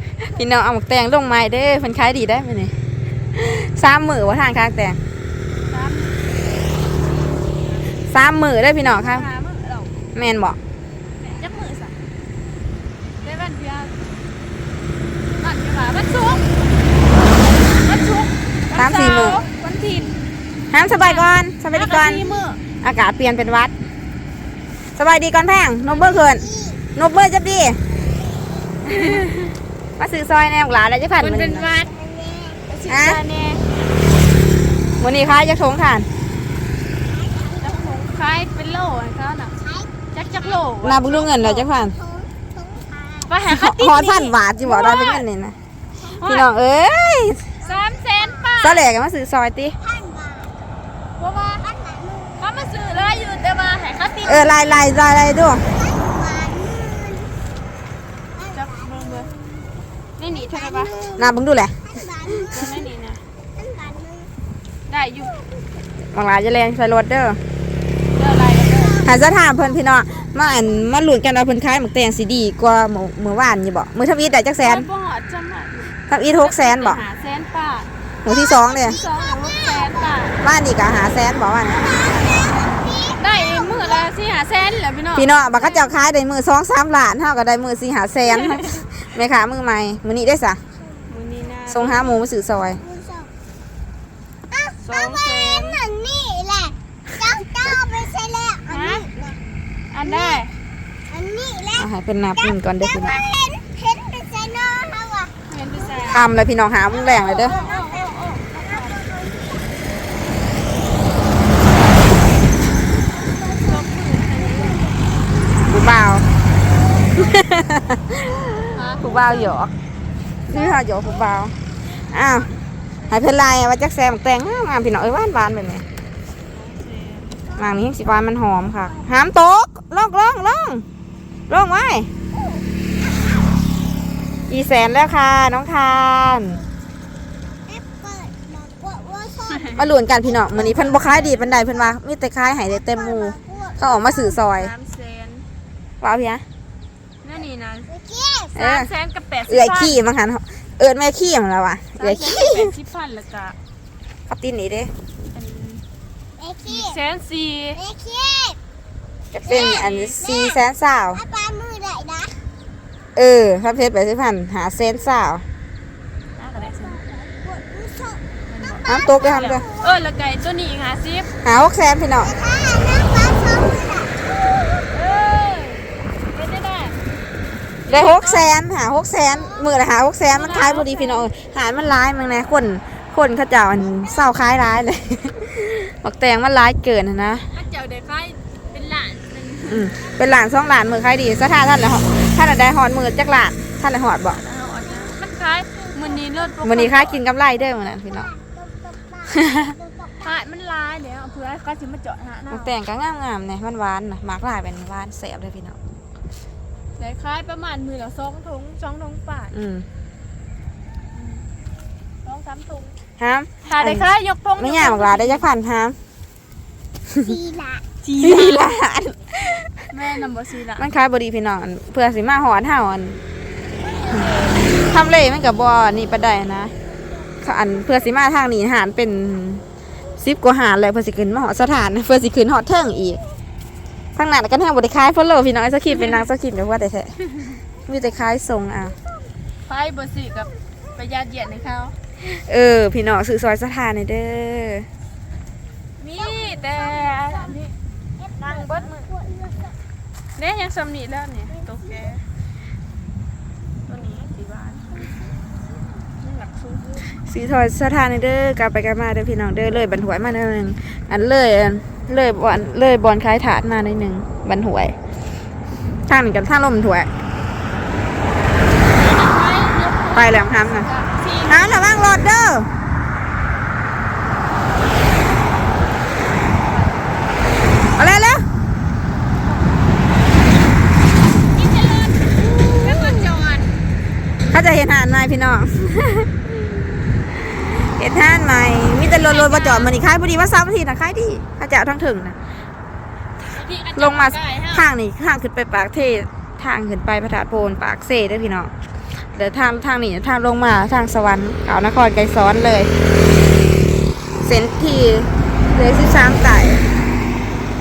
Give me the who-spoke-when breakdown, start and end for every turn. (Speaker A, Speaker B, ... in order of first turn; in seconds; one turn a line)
Speaker A: 0.2-2.7
Speaker A: 3.3-5.0
Speaker B: 5.7-8.0
Speaker A: 8.0-9.2
Speaker B: 8.8-10.0
Speaker A: 10.1-10.6
Speaker B: 11.2-11.9
Speaker B: 13.2-13.9
Speaker B: 15.4-16.5
Speaker B: 17.7-20.2
Speaker A: 18.7-19.4
Speaker A: 20.7-23.7
Speaker B: 20.8-22.6
Speaker A: 24.9-27.8
Speaker C: 26.2-26.8
Speaker A: 28.9-29.5
Speaker B: 28.9-29.4
Speaker A: 30.0-31.7
Speaker B: 31.2-31.9
Speaker C: 31.9-32.6
Speaker B: 32.7-33.6
Speaker A: 32.9-33.2
Speaker A: 35.0-36.1
Speaker C: 37.2-37.7
Speaker B: 37.5-39.5
Speaker B: 40.1-41.7
Speaker A: 40.8-42.0
Speaker C: 42.0-43.3
Speaker B: 43.3-45.2
Speaker A: 43.5-45.5
Speaker B: 46.1-46.5
Speaker A: 46.2-47.4
Speaker B: 47.6-48.9
Speaker A: 48.6-49.8
Speaker C: 49.8-50.5
Speaker B: 51.2-51.6
Speaker C: 51.6-52.4
Speaker B: 52.4-54.8
Speaker A: 54.2-55.6
Speaker C: 55.7-57.3
Speaker C: 58.5-59.2
Speaker B: 58.5-59.3
Speaker B: 60.2-61.0
Speaker C: 60.5-61.3
Speaker A: 61.1-61.8
Speaker C: 61.9-62.5
Speaker B: 62.5-63.2
Speaker C: 63.6-64.3
Speaker B: 64.9-65.4
Speaker A: 66.1-67.4
Speaker B: 68.1-69.0
Speaker A: 69.0-74.9
Speaker B: 74.6-77.9
Speaker A: 76.1-77.0
Speaker A: 78.2-79.0
Speaker C: 78.3-79.9
Speaker B: 78.8-80.4
Speaker A: 80.4-81.9
Speaker C: 81.8-83.9
Speaker B: 82.9-85.9
Speaker A: 85.1-90.6
Speaker B: 88.4-88.8
Speaker B: 91.1-92.2
Speaker A: 91.7-92.8
Speaker C: 92.8-93.3
Speaker C: 94.5-99.1
Speaker B: 94.8-95.8
Speaker B: 98.7-99.3
Speaker B: 99.9-100.5
Speaker C: 101.1-101.8
Speaker A: 101.7-103.2
Speaker C: 102.8-105.3
Speaker B: 105.5-106.3
Speaker A: 106.1-107.6
Speaker C: 106.9-109.7
Speaker B: 107.4-109.0
Speaker C: 113.2-113.8
Speaker B: 113.4-114.8
Speaker C: 114.3-114.9
Speaker A: 115.7-116.2
Speaker A: 117.2-119.7
Speaker B: 118.7-119.5
Speaker A: 120.5-121.5
Speaker A: 122.1-122.5
Speaker A: 123.1-125.8
Speaker B: 126.5-127.5
Speaker A: 127.5-130.8
Speaker A: 131.5-132.1
Speaker A: 134.5-136.6
Speaker C: 137.7-139.8
Speaker B: 139.5-139.8
Speaker A: 139.7-144.7
Speaker B: 140.5-141.3
Speaker C: 141.1-141.7
Speaker C: 142.8-143.8
Speaker B: 143.9-145.4
Speaker A: 146.0-146.4
Speaker B: 147.2-147.9
Speaker C: 147.9-148.5
Speaker A: 148.6-148.9
Speaker B: 148.6-150.0
Speaker A: 149.5-152.7
Speaker B: 151.9-153.6
Speaker A: 154.3-154.9
Speaker B: 155.3-155.8
Speaker C: 156.4-156.9
Speaker B: 156.6-157.8
Speaker C: 157.8-158.6
Speaker A: 159.3-161.2
Speaker B: 159.6-160.1
Speaker C: 160.2-160.6
Speaker C: 161.2-162.4
Speaker A: 163.2-165.4
Speaker B: 166.3-167.0
Speaker C: 166.8-168.2
Speaker B: 168.4-171.3
Speaker C: 168.7-169.9
Speaker A: 168.8-169.6
Speaker A: 171.4-172.3
Speaker C: 172.3-174.7
Speaker B: 174.9-177.0
Speaker B: 177.8-178.5
Speaker A: 177.9-187.5
Speaker B: 180.3-181.2
Speaker B: 187.5-189.9
Speaker A: 189.7-194.4
Speaker B: 194.2-197.2
Speaker A: 196.6-198.3
Speaker C: 198.3-200.1
Speaker A: 199.3-199.7
Speaker B: 200.2-202.7
Speaker A: 202.5-205.8
Speaker B: 207.0-209.5
Speaker A: 209.5-209.8
Speaker B: 211.1-211.4
Speaker B: 212.2-212.9
Speaker A: 213.2-214.1
Speaker B: 213.6-215.5
Speaker A: 214.6-216.0
Speaker C: 217.2-217.8
Speaker B: 218.0-218.7
Speaker A: 218.2-219.7
Speaker B: 219.9-220.9
Speaker A: 220.8-223.2
Speaker B: 224.0-224.5
Speaker A: 224.8-226.7
Speaker A: 227.4-229.6
Speaker A: 230.2-233.2
Speaker A: 234.2-237.1
Speaker B: 235.9-236.2
Speaker A: 237.9-238.9
Speaker B: 239.7-241.9
Speaker A: 242.2-244.9
Speaker B: 246.0-247.7
Speaker C: 246.6-247.3
Speaker B: 248.4-249.1
Speaker C: 248.7-249.7
Speaker B: 250.3-252.2
Speaker B: 253.9-255.1
Speaker B: 256.2-256.9
Speaker A: 257.3-264.9
Speaker A: 266.1-267.1
Speaker B: 268.9-271.9
Speaker A: 270.1-270.9
Speaker A: 271.5-272.7
Speaker B: 276.4-277.7
Speaker A: 277.9-278.4
Speaker B: 279.4-279.8
Speaker B: 281.4-283.7
Speaker A: 282.5-283.2
Speaker A: 284.5-286.3
Speaker A: 287.5-292.4
Speaker B: 289.1-289.9
Speaker B: 293.5-294.9
Speaker A: 294.0-298.7
Speaker A: 299.3-302.9
Speaker A: 304.4-306.8